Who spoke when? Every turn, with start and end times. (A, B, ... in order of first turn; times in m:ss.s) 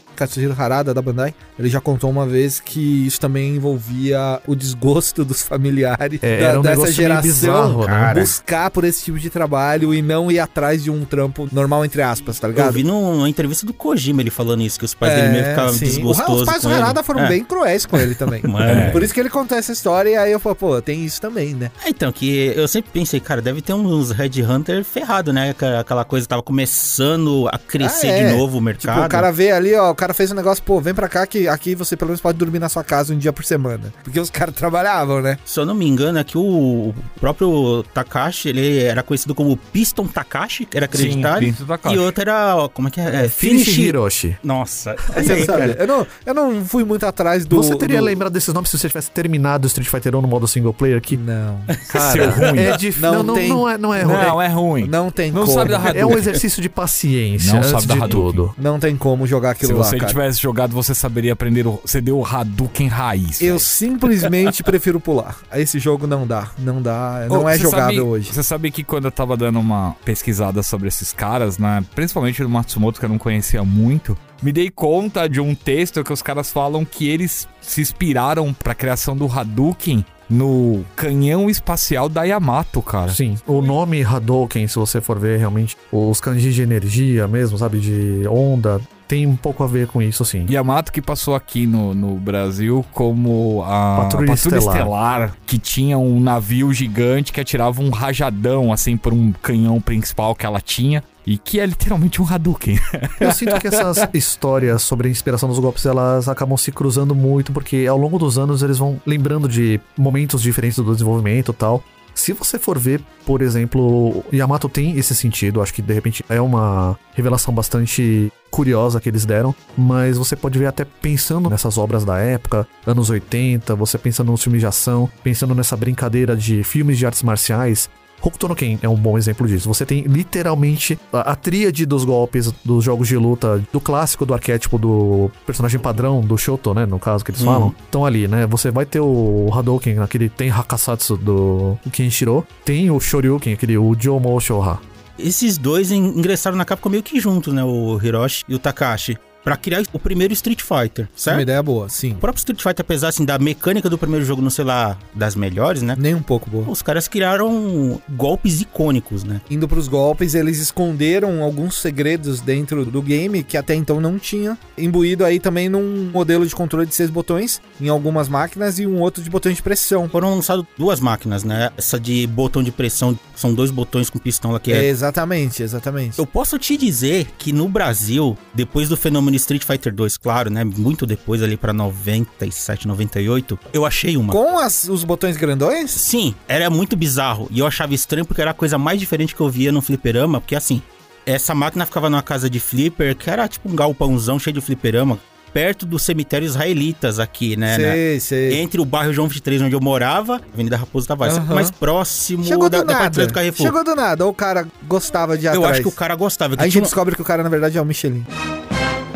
0:00.2-0:12.8 A
0:06.2-0:08.3 B
0:07.8-0:08.3 C
0:12.6-0:17.4 C
0:15.0-0:21.7 A
0:18.0-0:19.1 C
0:18.6-0:19.0 D
0:21.8-0:29.3 C
0:27.8-0:35.4 A
0:35.5-0:45.8 C
0:40.9-0:42.1 D
0:43.2-0:44.4 B
0:45.1-0:48.2 A
0:47.5-0:51.2 B
0:51.1-0:51.7 A
0:51.8-0:52.5 C
0:51.9-0:54.4 B
0:51.9-0:52.8 D
0:53.0-0:56.3 A
0:54.0-0:56.4 D
0:55.6-0:58.6 B
0:57.4-0:58.4 D
0:58.6-1:00.2 A
0:59.6-1:03.7 D
1:03.4-1:08.3 A
1:07.3-1:23.2 D
1:23.1-1:30.5 B
1:30.5-1:44.0 D
1:33.9-1:34.9 B
1:43.2-2:24.8 B
2:17.4-2:17.8 C
2:25.2-2:31.5 C
2:31.3-2:32.2 A
2:32.2-2:36.0 C
2:36.0-2:36.7 A
2:36.7-2:39.4 C
2:39.5-2:50.1 A
2:50.1-2:54.9 C
2:54.7-2:56.2 A
2:56.2-3:04.4 C
3:04.3-3:06.0 A
3:06.0-3:23.8 C
3:17.7-3:18.6 A
3:21.2-3:21.7 A
3:22.4-3:26.0 A
3:25.5-3:26.9 C
3:26.6-3:28.3 A